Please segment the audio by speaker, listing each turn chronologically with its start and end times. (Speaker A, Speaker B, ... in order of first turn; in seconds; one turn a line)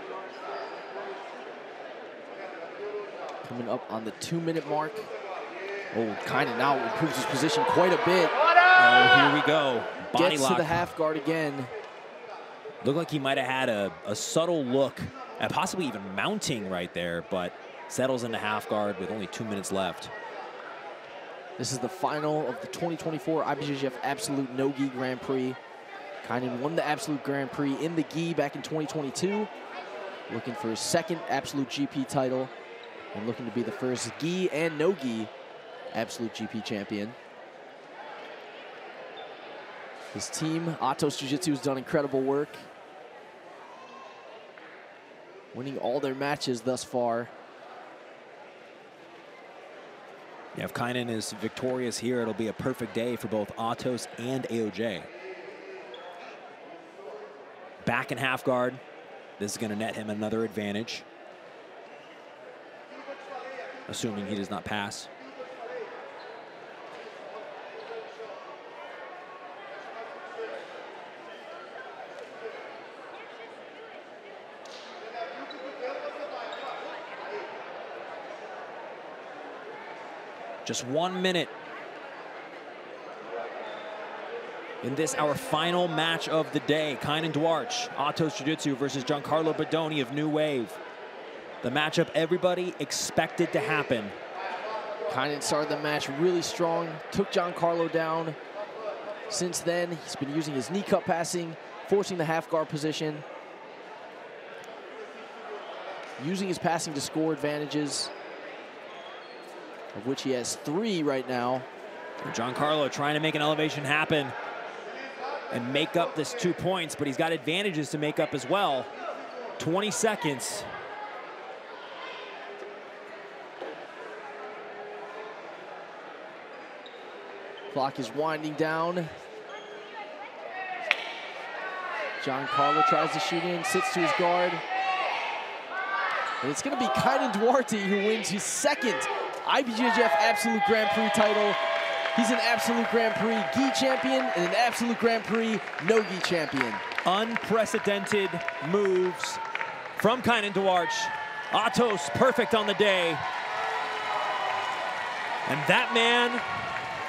Speaker A: 3.4-5.1
Speaker A: 5.9-8.3
Speaker B: 8.7-10.9
Speaker A: 10.1-11.7
Speaker B: 12.8-20.1
Speaker A: 21.6-25.6
Speaker A: 26.2-29.5
Speaker A: 30.3-32.5
Speaker A: 33.1-35.3
Speaker A: 35.9-37.1
Speaker A: 40.1-42.6
Speaker A: 45.5-47.3
Speaker B: 50.5-55.1
Speaker B: 57.8-58.8
Speaker B: 59.4-61.0
Speaker B: 63.9-65.1
Speaker B: 80.6-81.5
Speaker B: 84.8-90.8
Speaker B: 91.6-94.1
Speaker A: 95.1-98.4
Speaker A: 99.3-103.2
Speaker A: 106.2-108.1
Speaker A: 109.9-111.7
Speaker B: 112.2-114.3
Speaker B: 115.5-118.9
Speaker B: 119.6-120.7
Speaker A: 127.7-129.1
Speaker A: 132.2-134.6
Speaker A: 136.4-141.6
Speaker A: 142.1-146.8
Speaker B: 147.0-149.4
Speaker B: 150.0-153.2
Speaker B: 155.5-156.4